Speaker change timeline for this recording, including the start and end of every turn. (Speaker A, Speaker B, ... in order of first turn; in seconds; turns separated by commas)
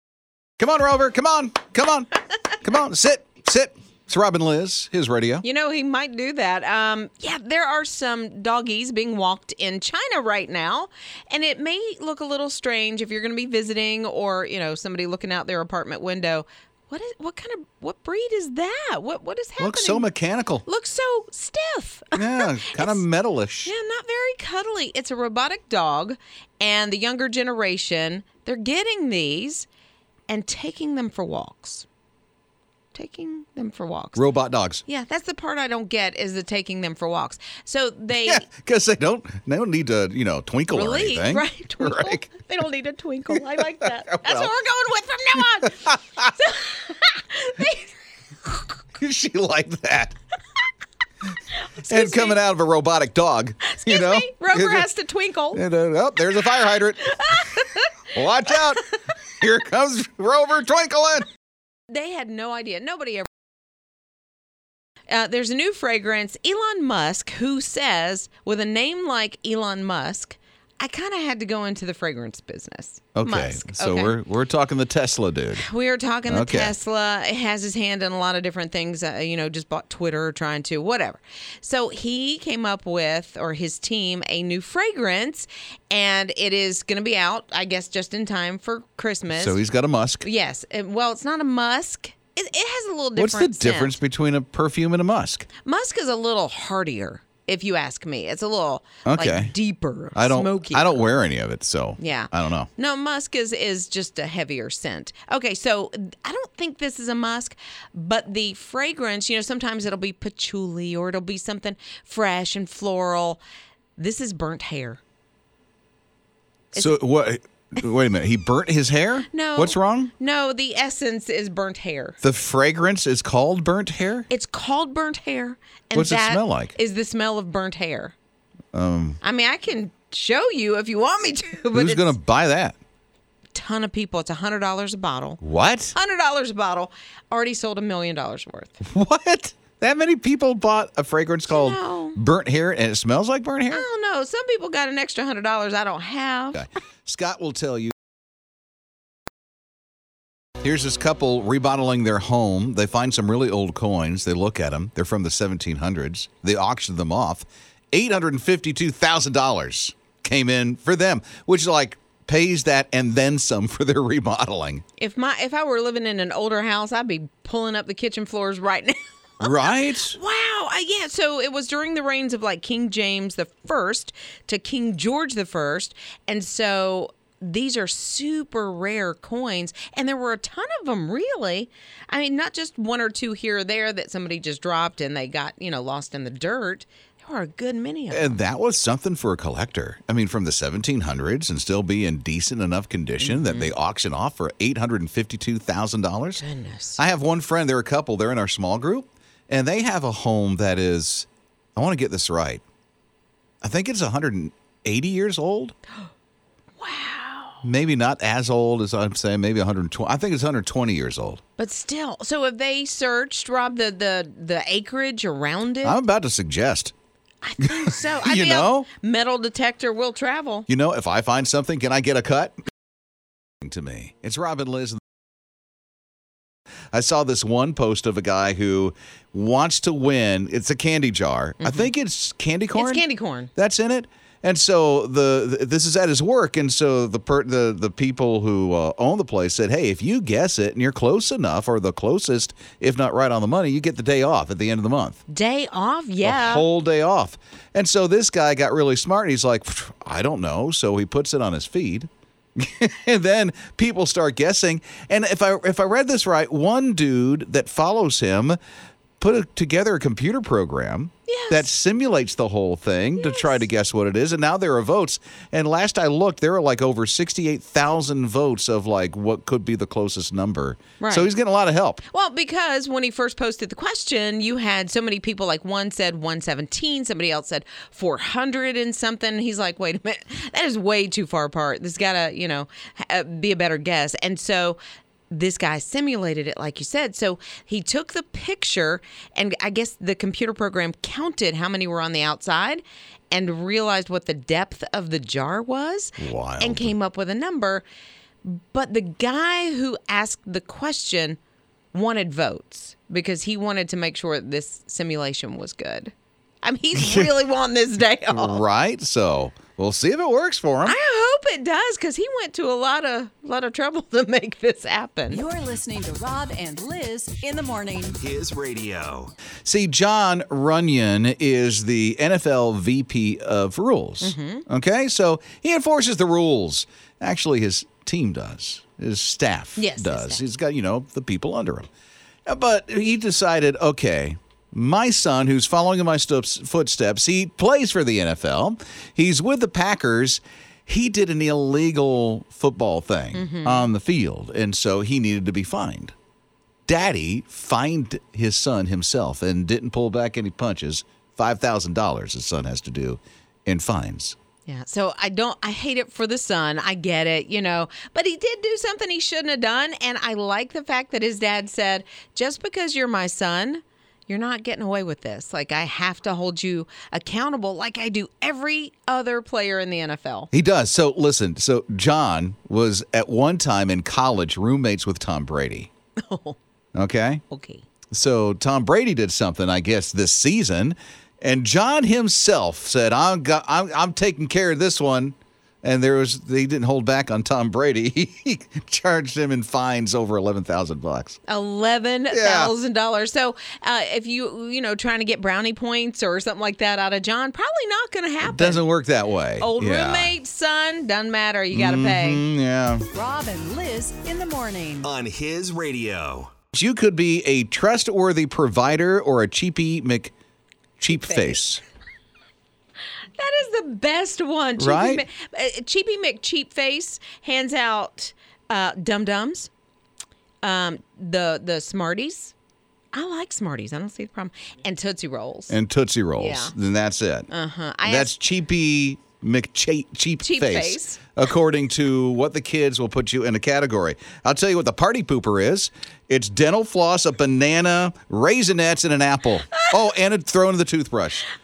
Speaker A: 0.6-5.4, Speaker B: 5.4-20.1, Speaker A: 19.6-20.6, Speaker B: 20.6-23.0, Speaker A: 22.1-23.7, Speaker B: 23.6-29.7, Speaker B: 30.3-31.9, Speaker B: 32.9-34.2, Speaker A: 34.1-34.8, Speaker B: 34.9-38.5, Speaker A: 38.2-42.3, Speaker B: 40.7-47.9, Speaker A: 43.3-44.5, Speaker B: 48.4-48.8, Speaker A: 49.0-50.1, Speaker B: 51.5-52.4, Speaker A: 51.9-54.9, Speaker B: 53.6-55.6, Speaker A: 55.5-57.5, Speaker B: 57.1-58.0, Speaker A: 58.1-58.8, Speaker A: 59.4-61.2, Speaker B: 61.9-63.3, Speaker B: 65.1-74.2, Speaker A: 73.2-75.6, Speaker B: 75.6-89.6, Speaker A: 76.3-76.7, Speaker A: 89.3-90.2, Speaker B: 90.2-94.0, Speaker A: 93.2-95.5, Speaker B: 95.6-101.1, Speaker A: 99.1-99.5, Speaker A: 100.1-102.7, Speaker B: 102.0-113.4, Speaker B: 114.0-115.0, Speaker A: 116.8-120.1, Speaker B: 119.3-122.2, Speaker A: 122.2-124.3, Speaker B: 124.3-128.1, Speaker A: 125.9-126.7, Speaker A: 128.7-129.2, Speaker B: 129.2-132.2, Speaker A: 131.7-132.8, Speaker B: 133.5-135.4, Speaker A: 135.4-135.9, Speaker B: 135.9-138.8, Speaker A: 138.8-143.8, Speaker B: 141.5-142.2, Speaker B: 143.7-146.6, Speaker A: 146.6-147.9, Speaker A: 150.6-164.8, Speaker B: 165.0-188.4, Speaker A: 169.4-170.2, Speaker A: 188.1-196.4, Speaker B: 193.2-193.7, Speaker B: 196.4-197.0, Speaker A: 197.0-202.6, Speaker A: 203.6-205.7, Speaker B: 206.8-207.6, Speaker A: 207.6-211.4, Speaker B: 211.6-216.0, Speaker A: 215.8-216.9, Speaker B: 217.4-220.7, Speaker A: 217.6-218.9, Speaker A: 220.7-222.6, Speaker A: 223.6-225.0, Speaker A: 226.9-233.0, Speaker B: 231.6-231.9, Speaker B: 232.8-233.5, Speaker A: 233.6-245.2, Speaker B: 245.3-246.6, Speaker A: 246.2-258.6, Speaker A: 259.2-272.0, Speaker B: 261.3-261.7, Speaker B: 263.2-263.6, Speaker B: 271.0-271.3, Speaker B: 272.1-284.8, Speaker B: 285.3-297.8, Speaker A: 296.2-296.9, Speaker B: 298.4-301.4, Speaker B: 301.9-308.6, Speaker A: 308.3-311.0, Speaker B: 310.9-315.4, Speaker C: 315.3-318.2, Speaker D: 318.2-319.3, Speaker A: 319.6-331.9, Speaker B: 324.2-324.6, Speaker B: 329.8-330.4, Speaker A: 332.5-346.1, Speaker B: 343.3-343.9, Speaker A: 346.9-354.4, Speaker B: 354.6-370.5, Speaker A: 370.5-375.9, Speaker B: 376.2-376.6, Speaker A: 376.9-377.4, Speaker B: 377.5-377.9, Speaker A: 378.1-391.4, Speaker B: 391.5-398.8, Speaker A: 392.3-392.7, Speaker A: 398.4-400.3, Speaker B: 399.6-402.4, Speaker A: 401.7-403.1, Speaker C: 403.1-405.1, Speaker D: 405.0-406.5, Speaker A: 406.7-410.3, Speaker A: 411.0-411.8, Speaker B: 411.1-411.6, Speaker B: 413.4-419.7, Speaker A: 414.8-415.2, Speaker B: 420.6-422.5, Speaker B: 423.1-425.7, Speaker A: 425.7-427.5, Speaker B: 426.4-426.7, Speaker B: 427.5-428.4, Speaker A: 428.1-441.5, Speaker B: 430.4-431.2